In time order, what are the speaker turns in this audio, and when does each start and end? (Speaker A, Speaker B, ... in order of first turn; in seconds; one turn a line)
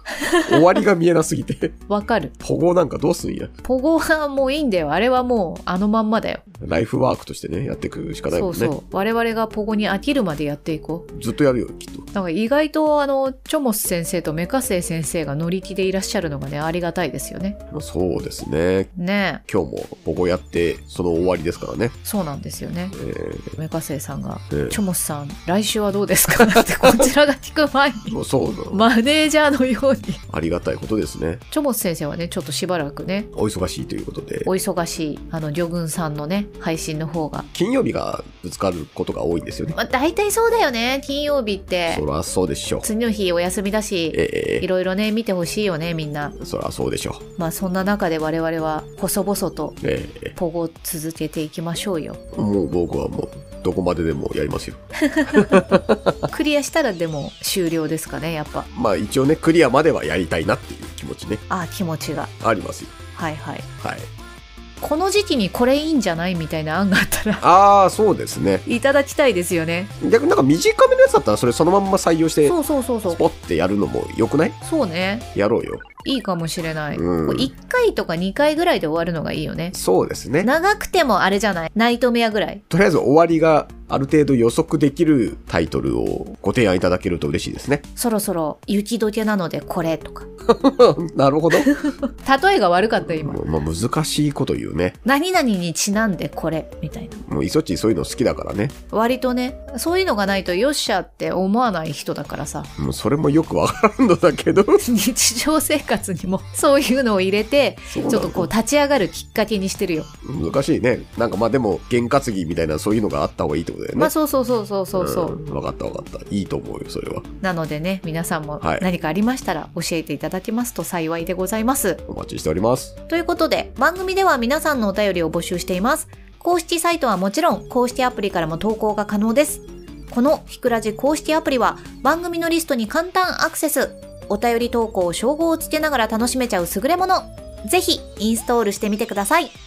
Speaker A: 0.2-0.6
Speaker B: 0.4-1.8
Speaker A: 1.9-2.3
Speaker B: 2.4-3.5
Speaker A: 3.6-6.4
Speaker B: 6.6-8.8
Speaker A: 8.3-11.1
Speaker B: 11.1-12.1
Speaker A: 12.1-17.6
Speaker B: 17.7-18.9
Speaker A: 18.9-19.4
Speaker B: 19.5-22.0
Speaker A: 22.0-23.0
Speaker B: 22.9-23.6
Speaker A: 23.6-28.2
Speaker B: 24.5-24.8
Speaker B: 26.5-27.0
Speaker B: 28.1-28.9
Speaker A: 28.7-30.2
Speaker B: 30.3-31.4
Speaker A: 31.5-33.3
Speaker B: 33.3-34.5
Speaker A: 34.5-37.5
Speaker B: 37.5-39.8
Speaker A: 39.7-42.0
Speaker B: 41.9-42.9
Speaker A: 42.8-46.4
Speaker B: 44.1-44.7
Speaker B: 46.4-47.2
Speaker A: 47.4-49.8
Speaker B: 49.8-50.4
Speaker A: 50.4-52.2
Speaker B: 52.3-56.2
Speaker A: 55.0-55.6
Speaker A: 56.3-58.7
Speaker B: 58.7-61.4
Speaker A: 61.5-62.3
Speaker B: 62.4-63.0
Speaker A: 63.1-63.7
Speaker B: 63.8-64.1
Speaker A: 64.8-67.5
Speaker B: 67.4-68.7
Speaker A: 68.7-69.9
Speaker B: 70.0-72.6
Speaker A: 72.5-73.2
Speaker B: 73.1-74.6
Speaker A: 74.6-75.3
Speaker B: 75.3-75.9
Speaker A: 76.0-79.8
Speaker B: 76.9-77.5
Speaker B: 79.7-80.5
Speaker A: 80.4-82.6
Speaker B: 82.7-87.8
Speaker A: 88.0-90.3
Speaker B: 90.5-91.7
Speaker A: 91.6-93.4
Speaker B: 93.0-95.0
Speaker A: 95.0-97.2
Speaker B: 97.3-98.7
Speaker A: 98.9-102.7
Speaker B: 102.8-104.8
Speaker A: 104.8-110.1
Speaker B: 107.9-108.5
Speaker B: 110.2-114.1
Speaker A: 114.0-115.4
Speaker B: 114.9-117.3
Speaker A: 117.4-122.0
Speaker B: 118.6-118.9
Speaker B: 122.1-123.0
Speaker A: 123.1-139.6